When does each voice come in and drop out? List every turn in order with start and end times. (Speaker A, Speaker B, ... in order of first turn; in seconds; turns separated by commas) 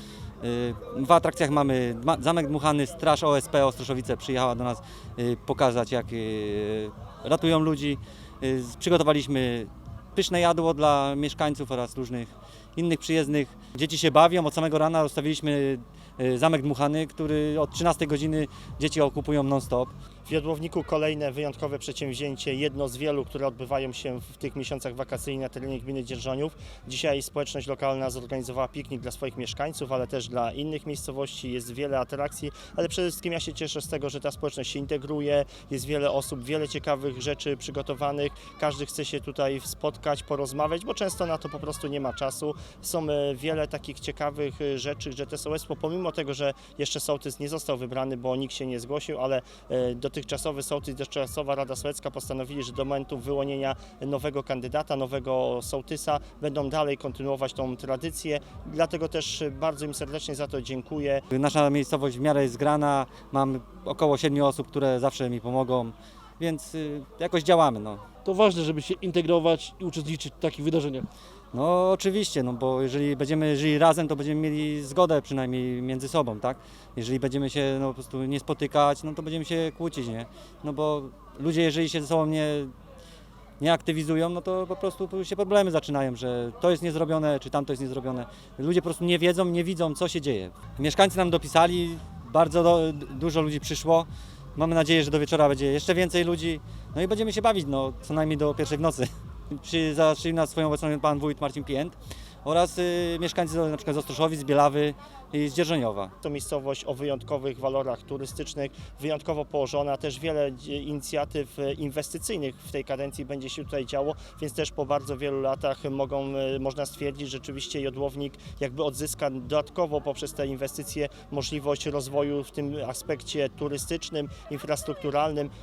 Speaker A: 0.4-19.9, Speaker B: 20.2-61.2, Speaker A: 61.3-68.0, Speaker C: 68.2-71.1, Speaker A: 71.5-82.7, Speaker A: 83.6-106.1, Speaker B: 106.2-125.5